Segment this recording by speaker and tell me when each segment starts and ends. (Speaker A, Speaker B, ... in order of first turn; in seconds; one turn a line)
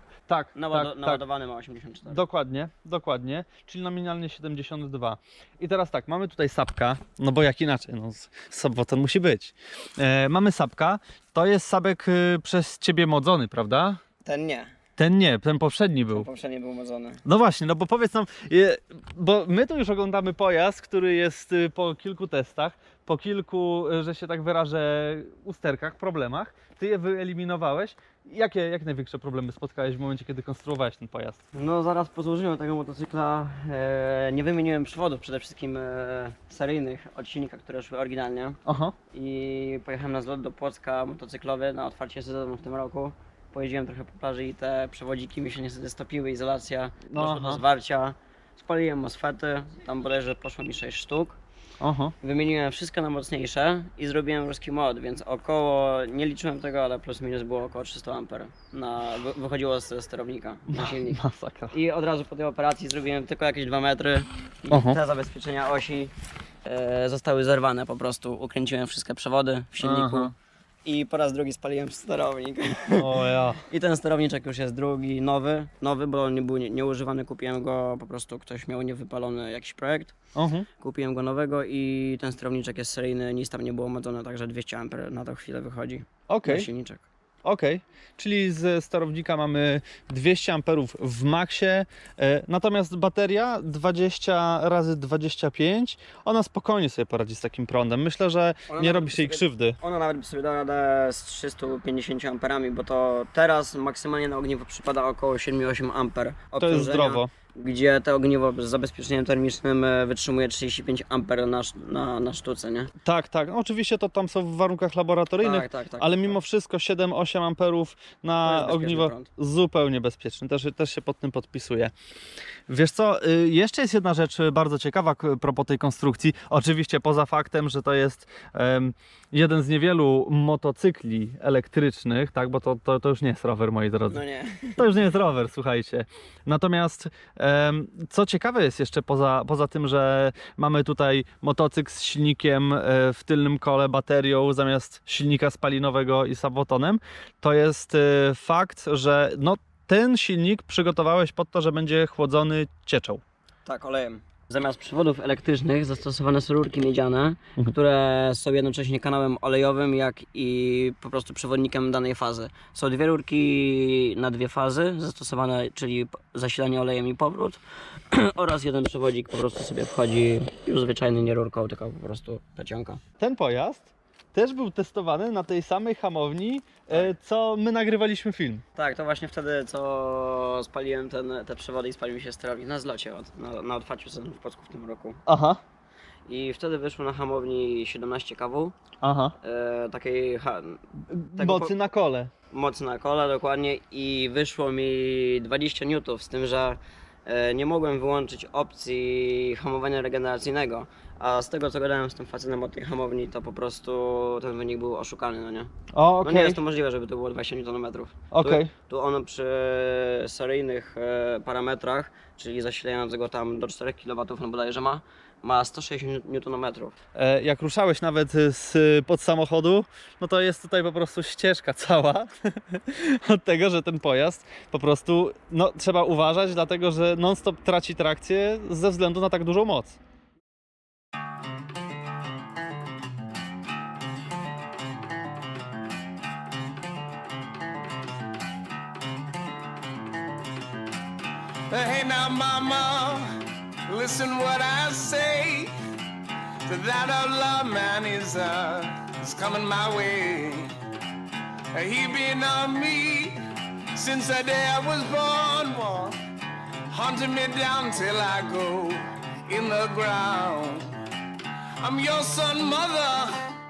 Speaker A: 0.3-1.2
Speaker B: 0.5-2.2
Speaker A: 2.1-14.0
Speaker B: 14.2-14.7
Speaker A: 15.0-16.3
Speaker B: 16.1-17.2
Speaker A: 17.2-31.4
Speaker B: 31.5-38.6
Speaker A: 38.6-38.9
Speaker B: 39.1-51.4
Speaker A: 47.1-47.6
Speaker A: 51.8-52.1
Speaker B: 52.2-61.2
Speaker A: 60.7-61.8
Speaker B: 61.7-66.1
Speaker A: 64.7-65.0
Speaker B: 66.6-70.3
Speaker A: 69.8-70.3
Speaker B: 70.8-80.2
Speaker A: 73.0-73.7
Speaker A: 80.3-80.7
Speaker B: 80.8-87.0
Speaker A: 86.3-86.7
Speaker A: 87.4-99.8
Speaker B: 98.7-112.9
Speaker A: 106.6-107.3
Speaker A: 113.0-121.9
Speaker B: 115.4-116.4
Speaker B: 118.4-119.3
Speaker A: 122.7-134.2
Speaker B: 134.1-134.9
Speaker A: 134.8-153.2
Speaker B: 153.7-173.0
Speaker A: 173.2-178.6
Speaker B: 178.7-185.2
Speaker A: 185.2-185.6
Speaker B: 186.3-188.7
Speaker A: 189.0-189.3
Speaker B: 189.4-191.8
Speaker A: 191.1-192.3
Speaker B: 192.5-205.7
Speaker A: 205.9-206.6
Speaker B: 206.2-217.0
Speaker A: 208.3-208.7
Speaker A: 217.2-230.0
Speaker C: 241.7-245.7
Speaker C: 246.7-250.7
Speaker C: 251.7-253.4
Speaker C: 253.9-256.2
Speaker C: 256.9-261.0
Speaker C: 261.8-263.5